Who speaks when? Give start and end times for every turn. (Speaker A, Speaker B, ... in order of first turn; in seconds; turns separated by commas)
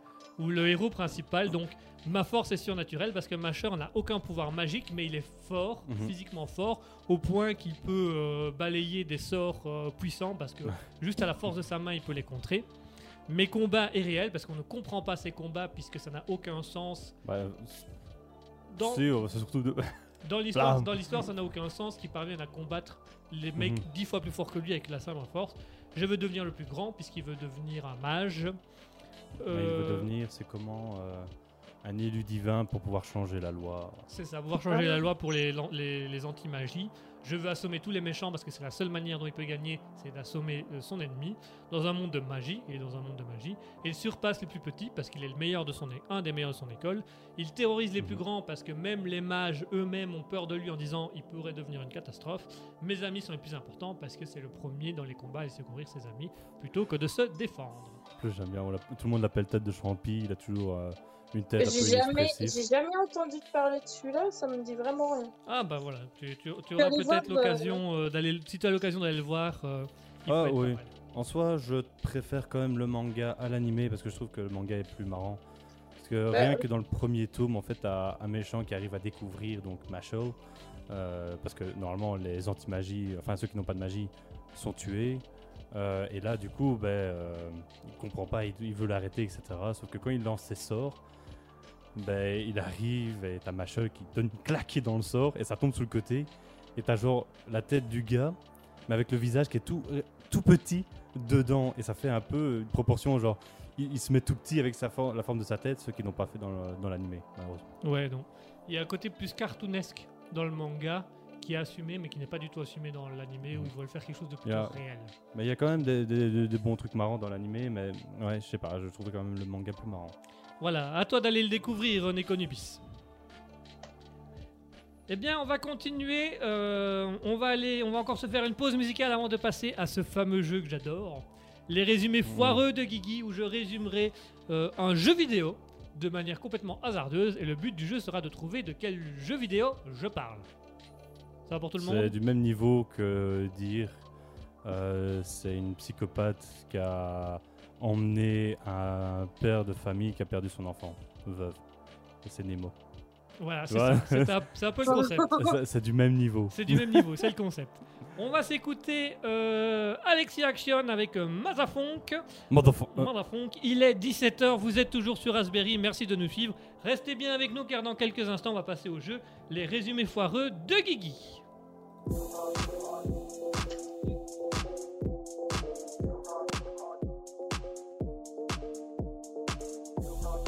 Speaker A: 0.4-12.7, Speaker B: 5.8-6.1, Speaker A: 13.3-17.1, Speaker B: 17.2-17.9, Speaker A: 18.7-19.0, Speaker B: 18.8-19.9, Speaker A: 20.2-28.6, Speaker B: 20.5-21.0, Speaker B: 23.6-23.8, Speaker A: 29.4-30.1, Speaker B: 29.5-31.3, Speaker B: 31.8-34.1, Speaker A: 34.1-58.0, Speaker C: 34.7-35.1, Speaker B: 58.2-62.6, Speaker C: 61.6-65.3, Speaker A: 65.5-70.9, Speaker C: 66.8-67.8, Speaker B: 70.3-75.4, Speaker B: 76.0-80.3, Speaker C: 76.3-76.6, Speaker B: 80.9-91.0, Speaker B: 91.9-107.7, Speaker A: 107.8-115.1, Speaker B: 114.4-120.2, Speaker A: 120.6-122.8, Speaker A: 125.1-140.5, Speaker B: 132.2-132.6, Speaker A: 141.5-142.1, Speaker B: 141.8-144.0, Speaker B: 144.6-151.6, Speaker B: 152.2-152.7, Speaker A: 153.4-155.4, Speaker B: 153.7-157.1, Speaker C: 154.9-155.5, Speaker A: 156.5-162.2, Speaker B: 162.5-163.1, Speaker A: 162.8-171.4